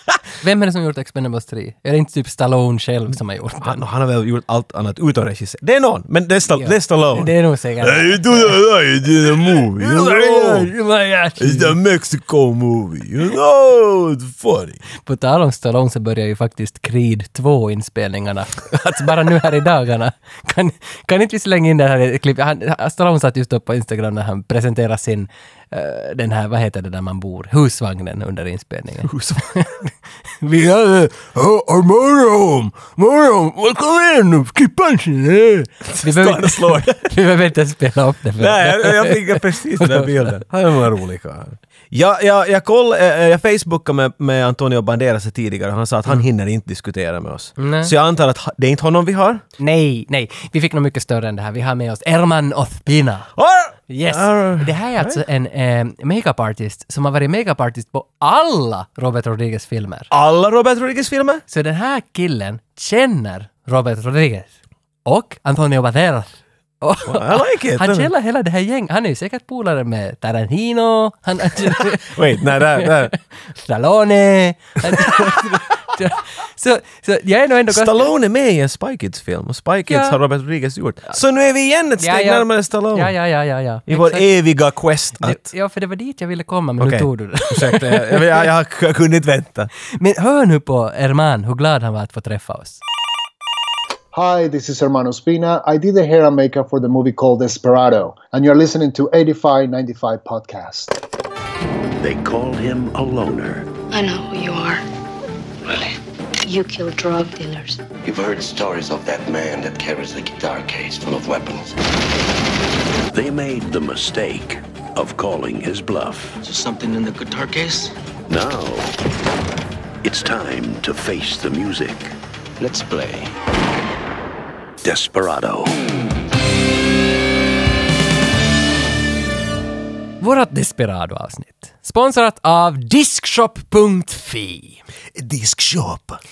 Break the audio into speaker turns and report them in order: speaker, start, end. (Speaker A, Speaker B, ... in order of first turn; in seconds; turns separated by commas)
Speaker A: 0.4-3.8, Speaker B: 3.6-10.7, Speaker A: 6.5-8.6, Speaker A: 9.5-11.8, Speaker B: 11.4-14.8, Speaker A: 15.0-40.3, Speaker B: 29.0-29.6, Speaker B: 35.9-37.0, Speaker B: 38.4-49.4, Speaker A: 47.6-47.9, Speaker A: 49.6-53.3, Speaker B: 53.4-55.2, Speaker A: 53.9-60.1, Speaker B: 60.1-61.4, Speaker A: 61.5-64.5, Speaker A: 65.0-78.1, Speaker B: 67.1-68.1, Speaker B: 71.7-73.1, Speaker B: 74.9-75.2, Speaker B: 77.7-83.1, Speaker A: 79.9-80.2, Speaker A: 82.0-84.3, Speaker B: 83.9-85.5, Speaker A: 85.2-88.5, Speaker B: 86.8-89.7, Speaker A: 89.9-92.8, Speaker C: 94.1-101.0, Speaker D: 102.0-103.7, Speaker E: 103.9-104.8, Speaker E: 106.4-107.8, Speaker F: 108.0-111.8, Speaker D: 113.1-116.4, Speaker F: 116.4-118.0, Speaker D: 118.3-118.9, Speaker D: 120.0-122.1, Speaker F: 122.6-123.3, Speaker D: 124.8-125.8, Speaker A: 130.2-134.8, Speaker B: 135.2-136.2